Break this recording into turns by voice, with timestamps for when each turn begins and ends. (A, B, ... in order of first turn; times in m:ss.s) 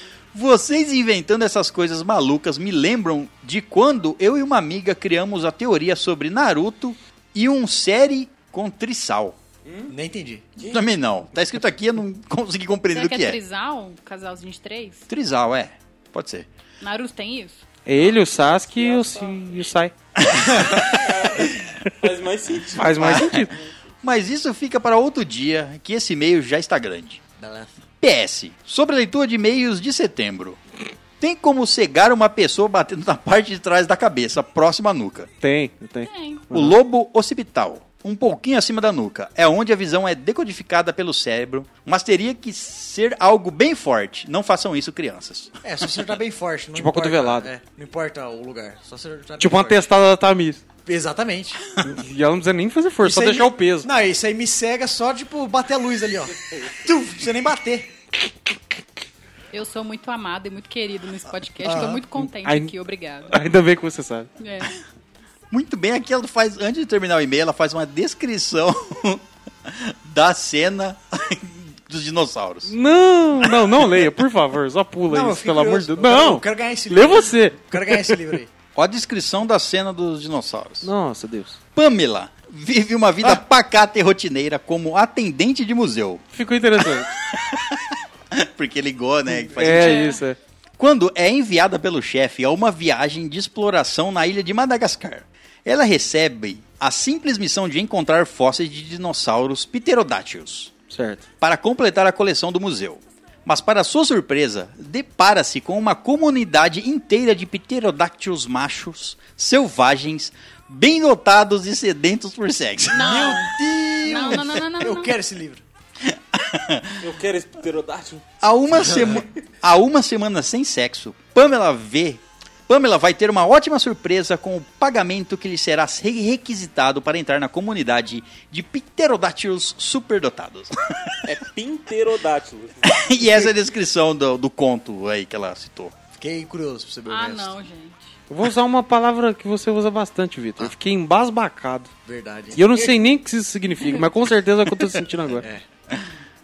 0:00.3-0:09.4 A
0:09.7-0:09.9 B
0:09.9-0:10.5 C
0:10.6-0:13.4 A
0:12.9-0:15.0 D
0:15.1-0:16.5 A
0:16.8-0:17.6 D
0:17.8-0:19.9 E
0:17.9-0:19.7 B
0:20.2-0:20.7 A
0:20.7-0:23.7 B
0:22.7-0:23.5 E
0:23.0-0:23.5 A
0:24.0-0:27.2 A
0:27.4-0:27.7 C
0:28.0-0:30.6 A
0:31.2-0:35.3 A
0:35.4-0:36.7 E
0:36.0-0:36.5 D
0:36.5-0:45.5 A
0:45.6-0:49.9 C
0:46.7-0:47.5 E
0:49.4-0:50.6 E
0:50.8-0:51.6 C
0:51.8-0:53.9 E
0:53.0-0:57.9 C
0:59.5-1:03.3 D
1:01.6-1:02.0 C
1:02.2-1:02.7 E
1:03.3-1:04.3 E
1:04.4-1:04.7 D
1:05.5-1:12.7 A
1:12.6-1:18.2 E
1:13.4-1:14.0 A
1:15.1-1:18.5 C
1:18.7-1:20.9 A
1:20.8-1:21.6 E
1:21.7-1:26.2 A
1:26.3-1:27.1 E
1:27.0-1:30.2 A
1:29.5-1:30.4 E
1:29.6-1:30.2 D
1:30.8-1:40.7 A
1:40.9-1:41.2 E
1:41.4-1:53.2 A
1:52.9-1:55.2 D
1:52.9-1:55.6 C
1:56.0-1:57.0 A
1:57.0-1:58.2 B
1:58.4-2:11.3 A
2:11.2-2:13.0 B
2:12.8-2:15.9 A
2:16.2-2:17.5 C
2:17.1-2:18.0 D
2:18.3-2:21.9 E
2:22.0-2:22.8 C
2:22.5-2:25.4 E
2:25.4-2:25.6 C